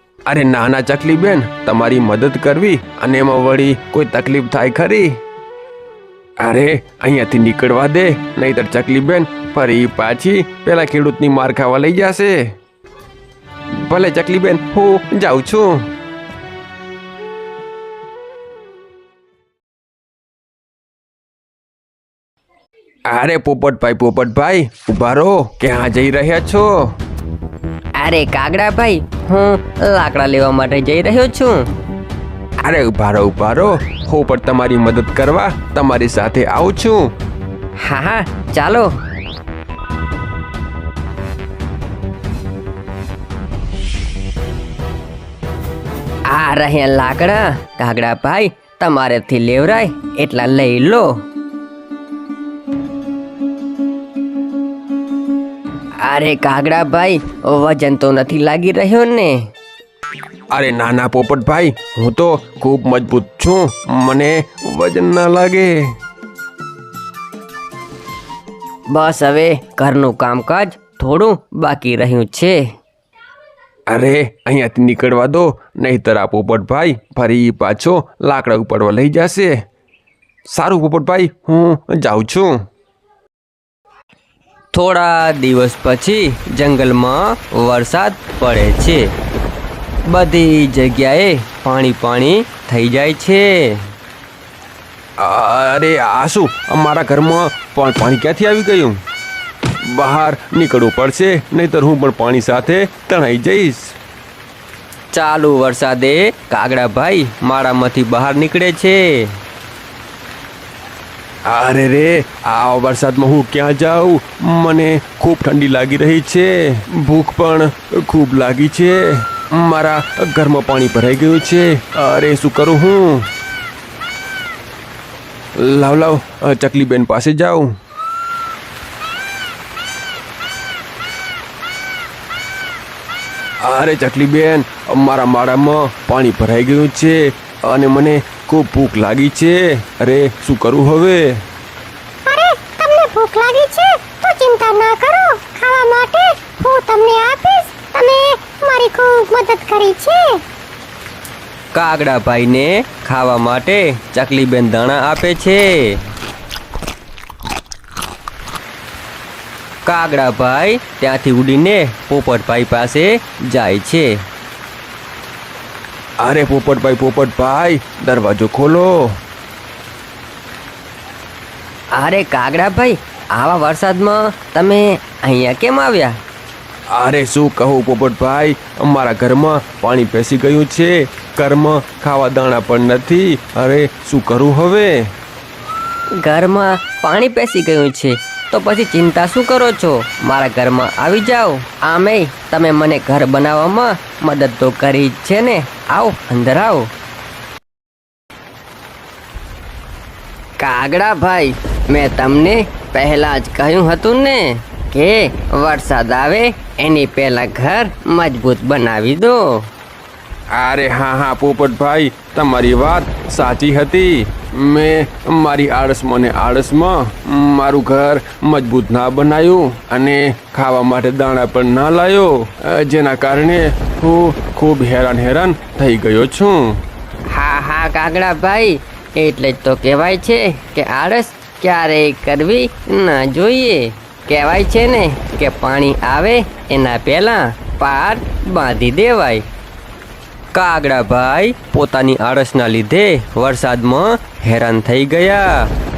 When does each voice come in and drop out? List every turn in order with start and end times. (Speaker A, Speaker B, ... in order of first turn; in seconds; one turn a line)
Speaker A: 0.3-5.2
Speaker A: 6.4-12.5
Speaker A: 13.8-15.9
Speaker A: 23.1-26.9
Speaker B: 28.0-31.6
Speaker A: 32.6-37.1
Speaker B: 37.8-38.9
Speaker B: 46.3-51.2
Speaker B: 56.0-59.5
Speaker A: 60.5-65.9
Speaker B: 68.9-72.6
Speaker A: 73.9-79.6
Speaker A: 80.5-82.6
Speaker B: 84.7-89.0
Speaker B: 90.1-93.8
Speaker A: 95.2-99.0
Speaker A: 99.8-103.9
Speaker B: 105.1-109.2
Speaker A: 111.5-123.3
Speaker A: 125.5-127.7
Speaker A: 133.6-141.4
Speaker C: 142.2-150.4
Speaker B: 151.7-156.0
Speaker B: 159.8-164.1
Speaker A: 166.2-169.2
Speaker B: 171.9-176.2
Speaker A: 176.9-184.9
Speaker B: 186.2-196.9
Speaker B: 200.6-209.7
Speaker A: 210.5-226.8
Speaker B: 227.3-239.4
Speaker B: 240.5-245.7